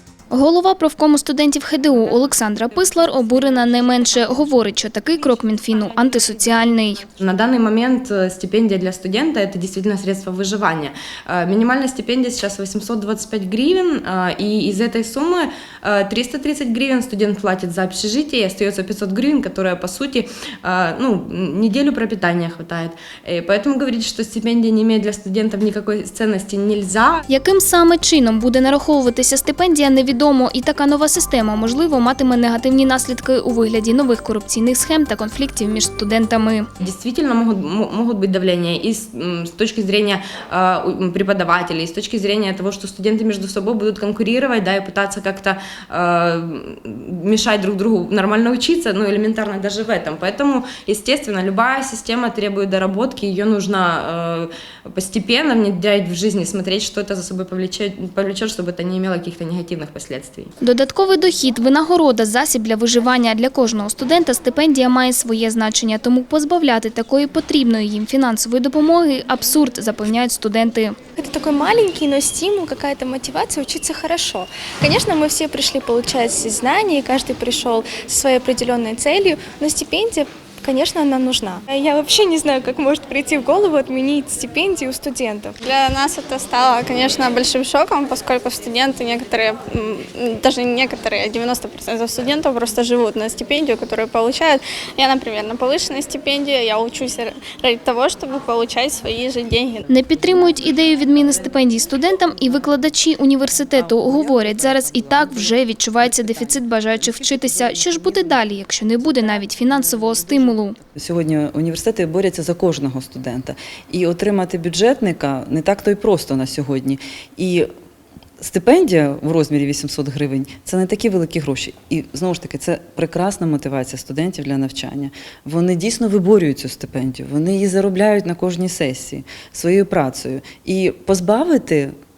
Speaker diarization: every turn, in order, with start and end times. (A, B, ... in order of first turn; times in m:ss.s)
0:00.3-0:07.0 A
0:07.2-0:27.2 B
0:27.3-0:36.7 A
0:36.8-1:00.5 B
1:00.6-1:11.0 A
1:11.2-1:25.6 C
1:25.6-1:39.8 D
1:39.9-1:50.8 A
1:51.0-1:57.7 E
1:58.4-2:11.9 E